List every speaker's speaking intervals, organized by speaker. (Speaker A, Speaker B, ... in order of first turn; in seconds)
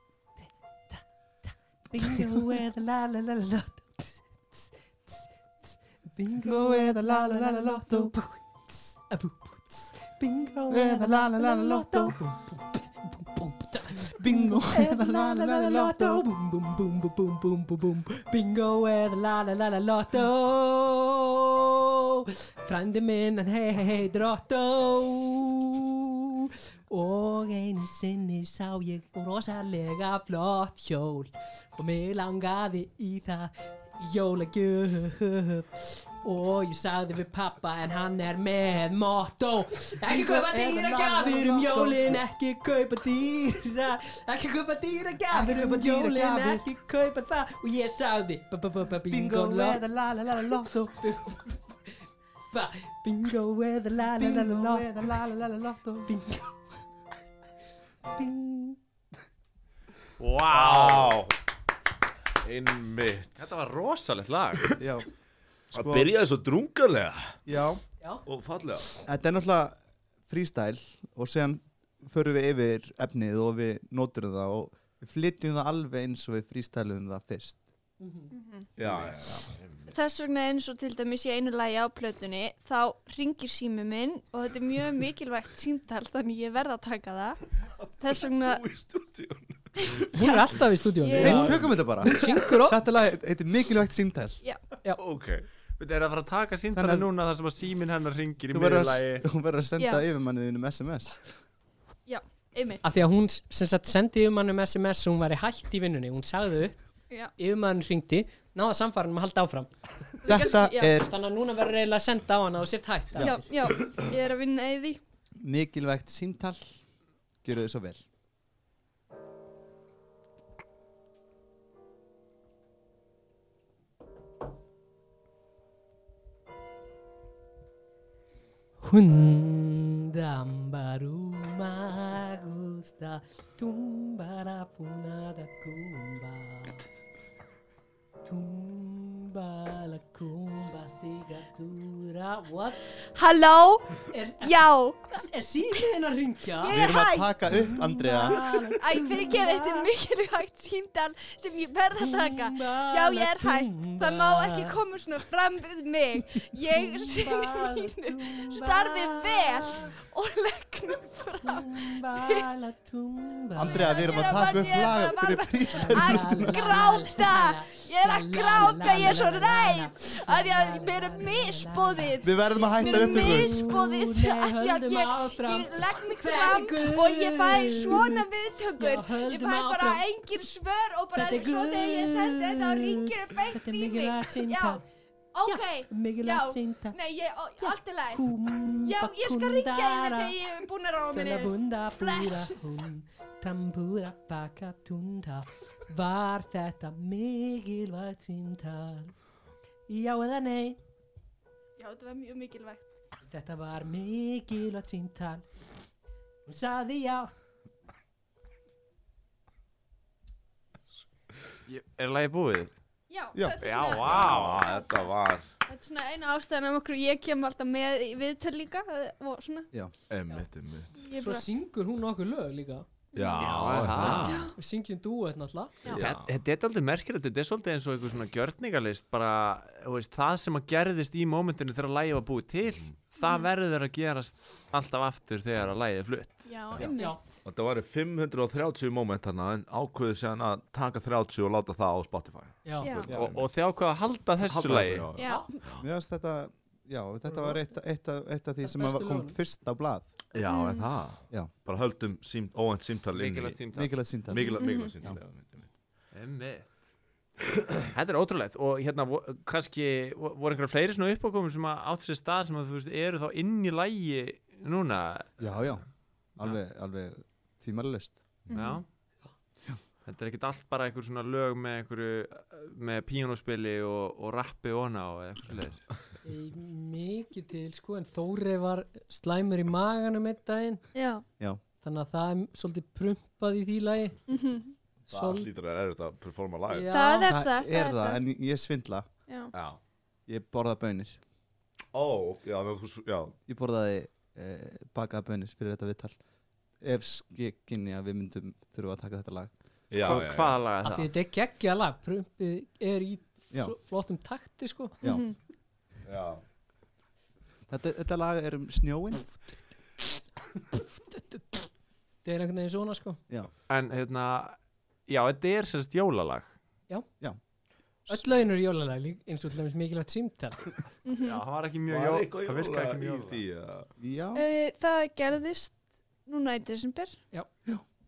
Speaker A: 0.4-49.8, 51.0-52.0, 52.5-55.1, 56.1-56.6, 58.1-58.8, 78.0-78.3, 90.1-92.8, 102.8-106.8, 107.4-109.7, 111.0-113.5, 128.8-136.8, 138.2-143.0, 144.1-144.6, 145.1-149.9, 152.0-154.8, 156.7-159.9, 161.4-164.8, 165.7-180.1, 181.1-184.8, 185.4-187.0, 187.6-190.4, 191.1-199.1, 199.9-200.8, 203.3-205.4, 206.5-207.3, 221.2-222.9, 224.5-225.9, 237.0-237.2, 242.7-243.0, 245.2-245.5, 248.6-249.4, 276.2-280.8, 281.8-284.2, 285.1-285.5, 286.7-287.3, 300.8-305.0, 310.8-311.7, 312.2-313.2, 318.1-320.6
Speaker B: 2.0-2.6, 6.4-8.2, 10.7-12.2, 14.2-16.3, 40.0-42.2, 45.3-46.7, 49.1-51.0, 54.2-56.1, 64.8-65.1, 65.7-66.2, 67.5-67.8, 69.0-69.8, 70.3-77.6, 91.2-94.4, 96.7-97.1, 98.5-101.2, 110.3-111.1, 113.2-113.4, 115.4-116.8, 117.4-118.0, 146.7-148.5, 163.6-166.7, 172.2-173.7, 245.8-250.1, 253.7-255.2, 265.4-265.8, 266.4-268.2, 287.3-289.1, 290.3-291.2, 293.5-296.2, 296.8-299.5, 307.7-309.3, 318.1-318.3, 324.0-324.4
Speaker C: 60.2-61.2, 63.4-64.8, 95.8-99.2, 211.7-212.7, 213.6-214.7, 223.4-224.5, 225.9-236.5, 243.1-245.1, 253.1-254.0, 256.1-256.7, 257.9-265.6, 268.5-268.9, 270.1-275.9, 300.0-301.1, 313.7-316.5, 321.2-323.4
Speaker D: 60.5-61.3, 62.4-63.5, 65.7-67.4, 68.3-69.0, 78.8-79.9, 88.2-90.1, 95.0-95.5, 213.9-215.5, 220.1-221.0, 223.2-224.5, 225.9-226.3, 237.4-243.5, 244.4-245.8, 250.3-253.6, 254.3-255.7, 285.1-286.9, 289.5-289.8, 291.9-293.4, 299.9-300.6, 306.1-306.4, 321.9-323.9
Speaker E: 78.3-78.7, 79.9-87.4, 88.0-88.6, 89.8-90.3, 91.0-91.7, 99.8-100.0, 102.1-102.8, 110.2-111.0, 113.2-115.0, 143.1-145.2, 146.6-147.3, 148.7-162.5, 163.7-184.8, 185.3-188.3, 188.8-192.5, 201.8-202.9, 213.1-215.1, 215.7-219.7, 221.0-221.4, 223.1-224.5, 233.2-233.5, 236.5-237.4, 242.8-243.1, 245.1-245.6, 250.4-250.9, 254.6-254.9, 268.5-268.8, 280.9-281.2, 284.3-284.7, 286.9-288.2, 289.3-289.5, 305.0-305.3, 321.1-321.4, 324.3-327.2